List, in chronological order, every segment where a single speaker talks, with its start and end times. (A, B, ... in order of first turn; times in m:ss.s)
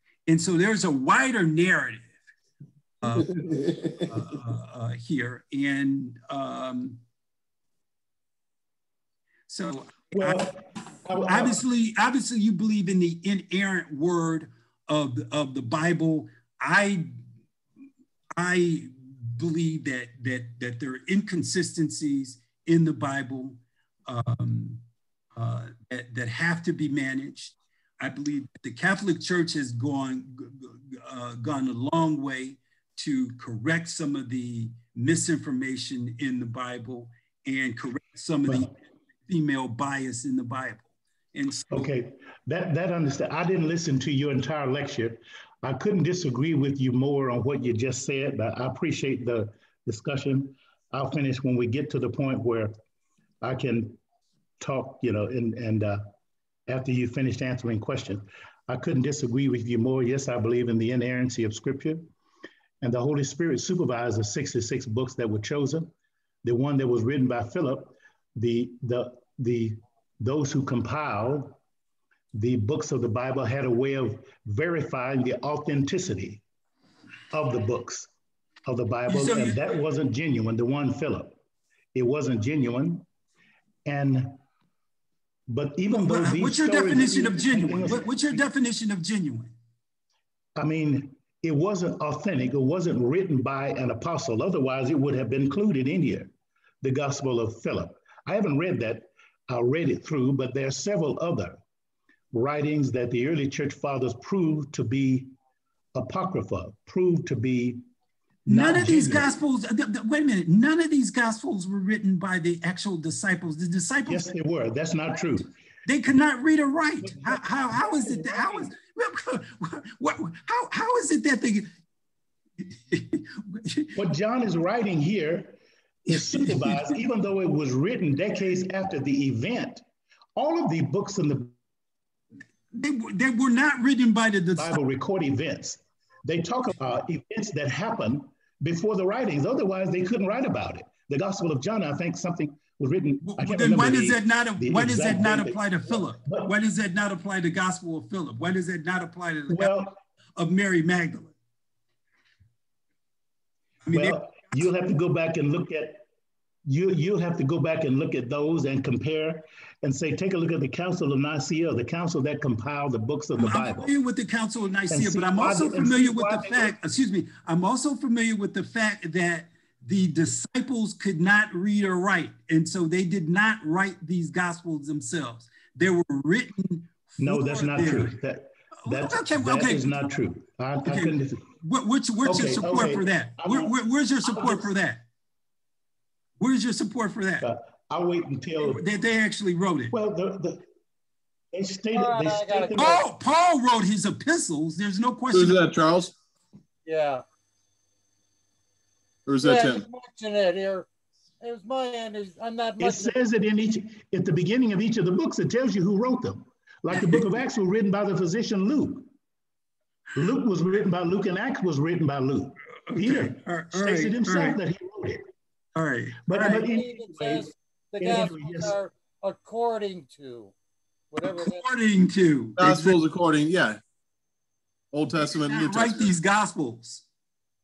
0:00.3-0:02.1 A
0:03.0-0:07.0 A
0:09.5-0:10.6 A
0:10.1-0:11.6 B
0:11.2-0:17.2 A
0:18.4-0:41.9 A
0:38.4-0:38.7 B
0:41.7-0:52.7 B
0:53.4-0:54.0 B
0:54.6-0:56.1 B
0:56.7-1:02.1 B
1:02.8-1:05.9 B
1:06.4-1:11.6 B
1:12.3-1:16.4 B
1:17.3-1:18.1 B
1:18.6-1:21.3 B
1:19.1-1:19.6 A
1:21.9-1:23.0 B
1:23.8-1:24.4 B
1:25.5-1:28.4 B
1:25.9-1:29.5 A
1:30.6-1:36.3 B
1:36.8-1:41.6 B
1:42.3-1:45.3 B
1:45.9-1:47.8 B
1:48.4-1:54.3 A
1:48.5-1:49.4 B
1:54.0-1:55.5 B
1:55.8-2:01.7 A
1:57.0-1:58.7 B
2:02.6-2:04.0 A
2:03.9-2:09.8 B
2:06.1-2:07.0 A
2:10.4-2:11.5 B
2:12.7-2:14.8 A
2:14.6-2:26.5 B
2:23.2-2:29.8 A
2:29.5-2:30.0 B
2:30.4-2:31.3 A
2:33.8-2:34.7 A
2:33.9-2:36.0 B
2:36.6-2:43.9 B
2:43.4-2:58.2 A
2:44.9-2:46.7 B
2:57.2-3:01.5 B
2:58.8-3:00.0 A
3:00.8-3:05.0 A
3:02.2-3:04.7 B
3:06.4-3:07.5 A
3:07.4-3:08.8 B
3:08.6-3:09.9 A
3:09.9-3:10.6 B
3:11.5-3:13.0 B
3:11.9-3:13.0 C
3:12.7-3:15.7 A
3:15.3-3:16.1 D
3:16.8-3:17.2 C
3:19.2-3:19.8 D
3:19.4-3:20.9 C
3:21.4-3:23.1 C
3:22.8-3:29.1 B
3:26.9-3:27.2 A
3:30.1-3:35.3 B
3:32.9-3:34.6 A
3:35.7-3:36.7 A
3:36.3-3:38.7 B
3:36.6-3:40.5 C
3:41.1-3:41.7 C
3:41.2-3:43.0 A
3:42.6-3:43.8 D
3:44.9-3:46.1 D
3:45.4-3:47.0 A